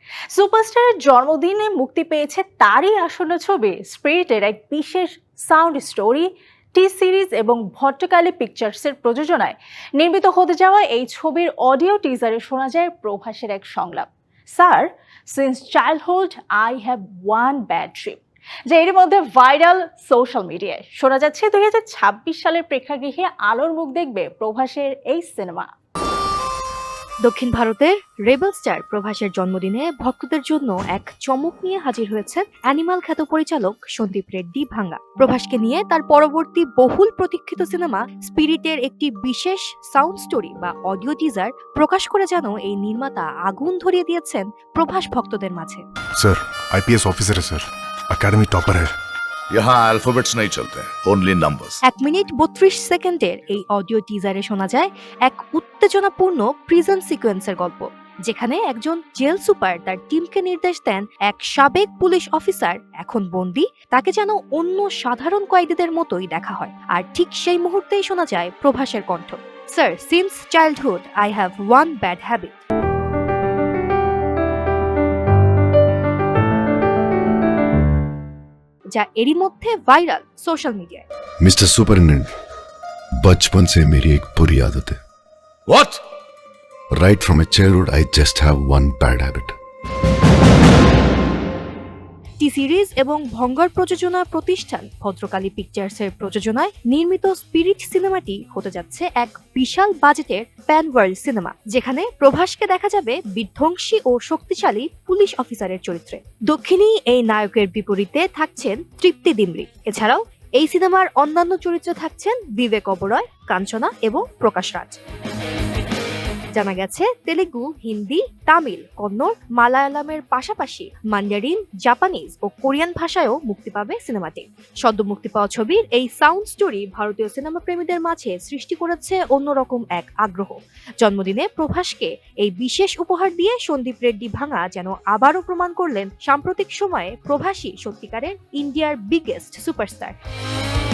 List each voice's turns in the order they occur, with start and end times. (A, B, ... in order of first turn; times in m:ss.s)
0:00.3-0:25.7 A
0:27.2-0:45.8 B
0:46.2-0:48.9 C
0:49.5-0:51.8 D
0:51.8-1:12.6 B
1:18.9-1:21.0 B
1:21.4-1:22.3 E
1:23.2-1:25.0 E
1:25.7-1:26.0 D
1:26.9-1:29.6 E
1:32.4-1:55.0 B
1:56.5-2:20.2 B